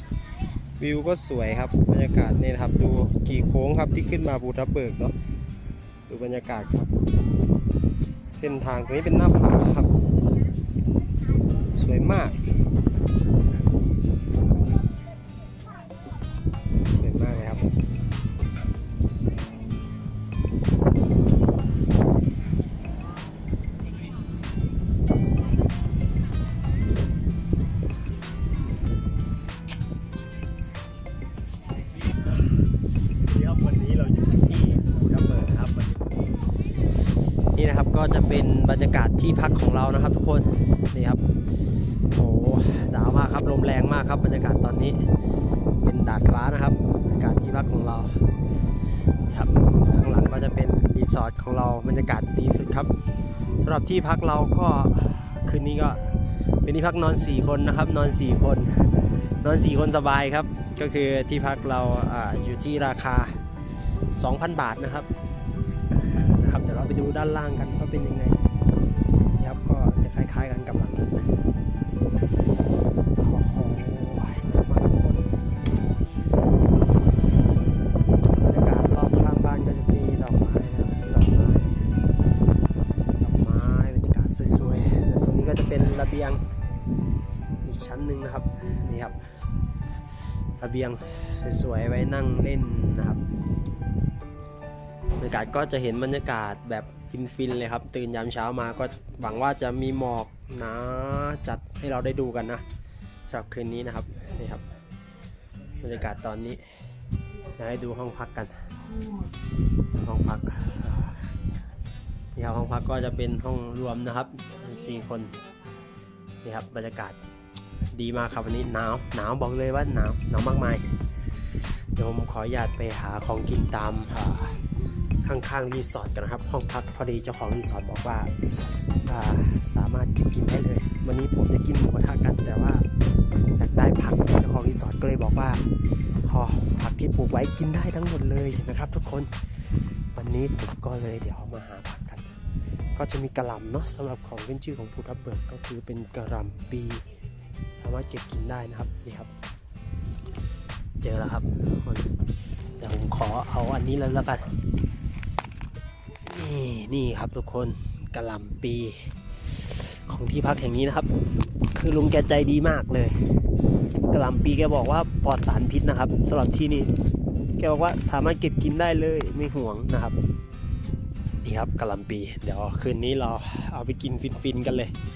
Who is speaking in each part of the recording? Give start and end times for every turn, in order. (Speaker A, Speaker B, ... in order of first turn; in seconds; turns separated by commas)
Speaker A: 0.8-5.1, Speaker A: 6.1-7.0, Speaker A: 8.3-9.9, Speaker A: 11.7-12.4, Speaker A: 16.9-17.7, Speaker A: 33.1-36.3, Speaker A: 37.5-41.2, Speaker A: 42.1-45.1, Speaker A: 45.8-48.3, Speaker A: 49.2-52.9, Speaker A: 53.5-63.4, Speaker A: 64.1-65.1, Speaker A: 65.9-68.4, Speaker A: 69.3-71.3, Speaker A: 73.1-75.5, Speaker A: 78.4-81.9, Speaker A: 83.2-86.4, Speaker A: 87.6-89.3, Speaker A: 90.6-93.2, Speaker A: 95.2-102.6, Speaker A: 103.3-104.6, Speaker A: 105.8-106.7, Speaker A: 107.5-108.7, Speaker A: 109.9-111.3, Speaker A: 112.3-115.5, Speaker A: 116.4-117.2, Speaker A: 117.8-132.9, Speaker A: 133.6-139.3, Speaker A: 140.1-142.3, Speaker A: 142.9-147.0, Speaker A: 147.8-149.3, Speaker A: 151.0-152.2, Speaker A: 152.8-154.6, Speaker A: 156.2-163.2, Speaker A: 164.1-166.9, Speaker A: 167.6-170.2, Speaker A: 171.4-174.9